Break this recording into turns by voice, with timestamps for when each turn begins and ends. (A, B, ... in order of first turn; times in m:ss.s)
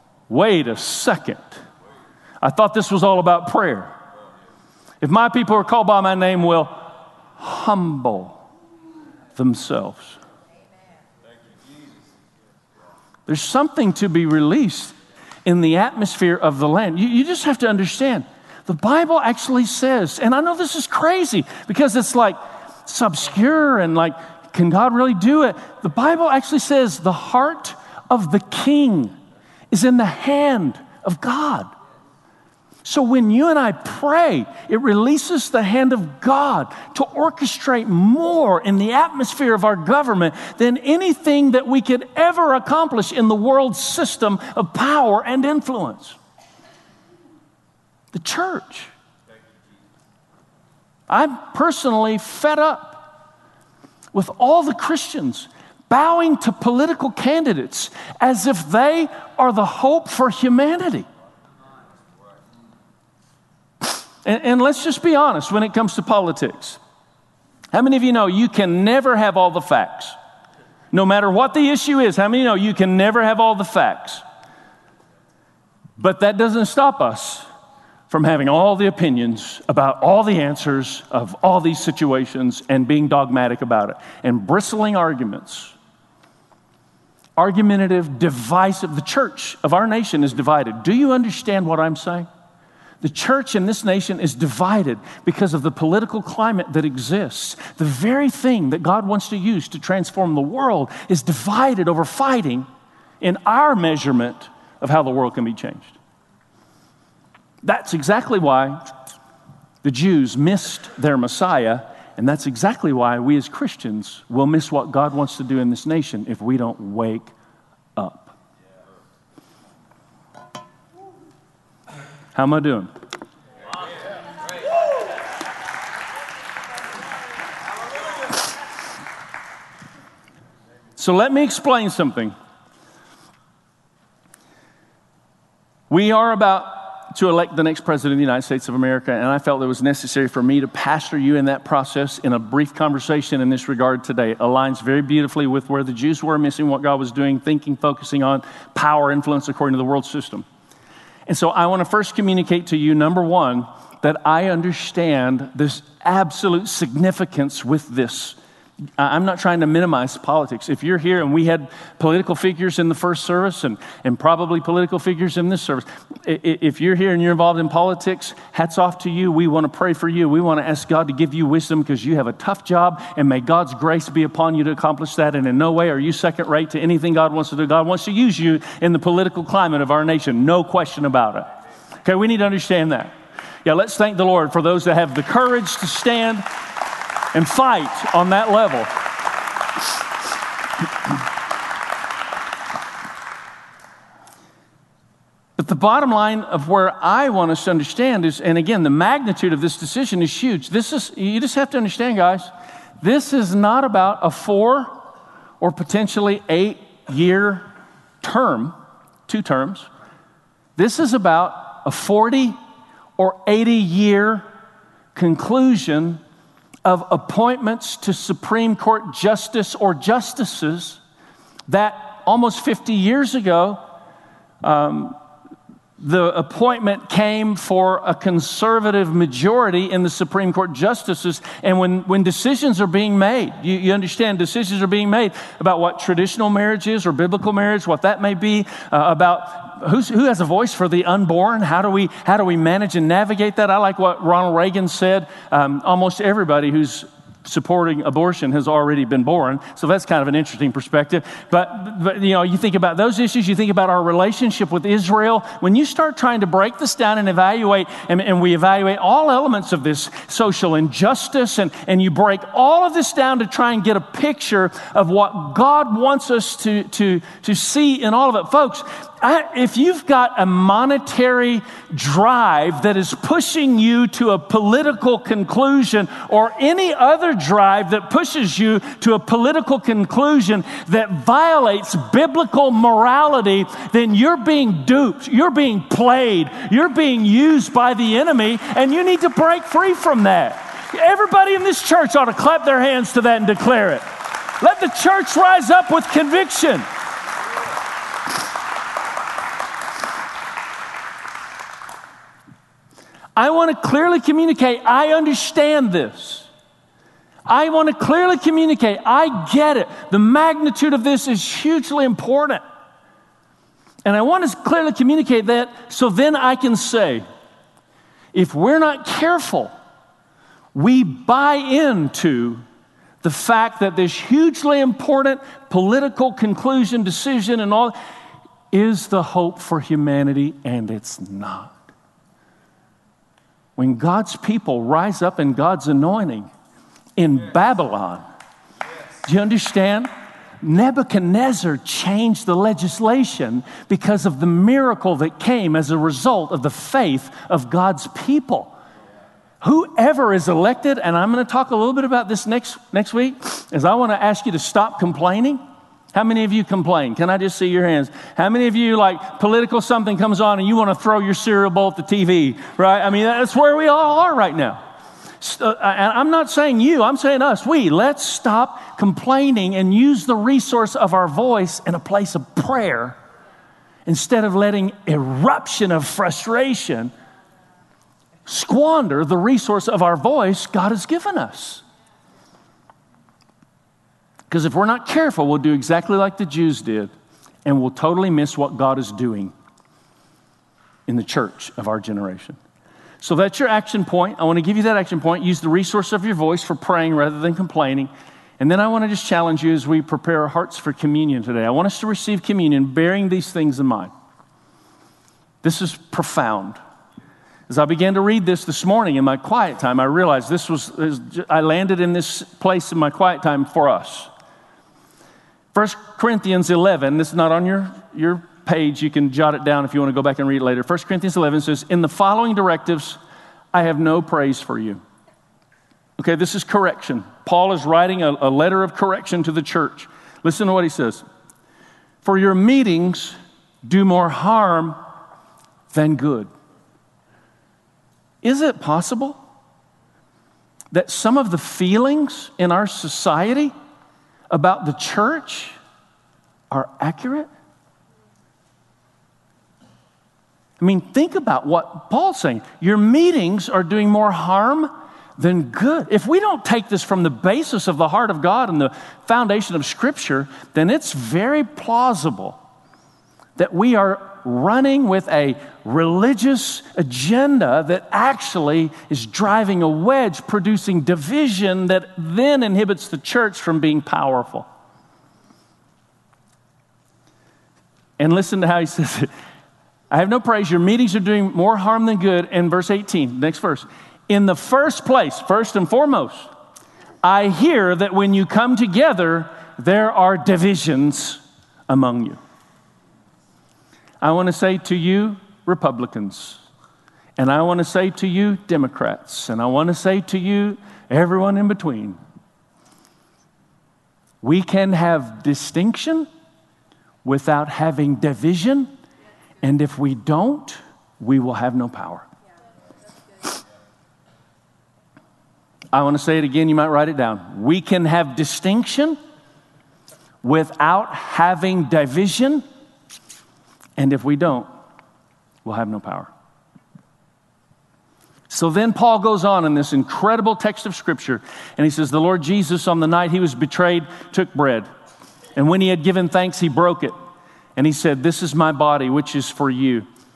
0:00.3-0:01.6 A
0:02.4-0:03.9 A
0:05.0-0:06.8 A
0:07.4-0:08.4 A
0:09.4-0:10.2 A
0:13.3-0:15.0 A
0:15.5-0:29.2 A
0:29.7-0:31.7 A
0:32.8-0:46.2 A
0:48.1-0:48.9 A
0:51.1-0:53.1 A
0:54.1-1:01.1 A
1:03.8-1:06.8 A
1:07.7-1:10.2 A
1:10.9-1:14.2 A
1:16.0-1:17.4 A
1:18.1-1:25.7 A
1:27.4-1:32.3 A
1:33.0-1:42.7 A
1:43.2-1:46.0 A
1:47.6-1:48.9 A
1:49.8-1:57.3 A
1:58.0-1:58.3 A
2:02.4-2:02.9 A
2:11.0-2:12.3 A
2:15.9-2:30.4 A
2:31.3-2:38.4 A
2:39.0-3:01.5 A
3:02.0-3:06.5 A
3:07.3-3:08.9 A
3:15.6-3:25.0 A
3:25.6-3:27.7 A
3:28.2-3:28.8 A
3:29.3-3:29.9 A
3:30.8-3:32.6 A
3:33.2-3:34.5 A
3:35.2-3:36.2 A
3:36.8-3:41.0 A
3:41.7-3:43.8 A
3:44.6-3:45.2 A
3:46.0-4:56.8 A
5:03.4-5:06.5 A
5:07.5-5:12.6 A
5:14.0-5:17.2 A
5:18.3-5:19.7 A
5:20.7-5:22.6 A
5:23.2-5:28.0 A
5:28.7-5:31.8 A
5:33.8-5:36.5 A
5:37.2-5:38.2 A
5:39.2-5:40.1 A
5:40.6-5:48.7 A
5:49.6-5:55.6 A
5:56.1-6:04.8 A
6:05.4-6:13.2 A
6:14.1-6:17.1 A
6:18.5-6:21.8 A
6:24.5-6:27.1 A
6:27.6-6:29.5 A
6:31.1-6:32.6 A
6:33.2-6:44.1 A
6:45.6-6:46.8 A
6:47.7-6:54.3 A
6:55.7-7:03.2 A
7:03.7-7:05.0 A
7:06.2-7:11.2 A
7:12.2-7:15.0 A
7:15.9-7:16.5 A
7:18.4-7:19.4 A
7:20.9-7:23.7 A
7:24.5-7:25.8 A
7:26.7-7:27.5 A
7:30.8-7:42.6 A
7:43.6-7:54.7 A
7:58.2-7:59.3 A
8:00.1-8:06.5 A
8:07.2-8:12.4 A
8:14.2-8:16.6 A
8:17.4-8:22.2 A
8:24.4-8:26.3 A
8:27.2-8:28.9 A
8:29.6-8:32.3 A
8:35.9-8:39.2 A
8:40.4-8:42.6 A
8:44.0-8:44.7 A
8:45.6-8:46.3 A
8:48.5-8:54.9 A
8:55.6-8:57.1 A
8:57.8-9:00.1 A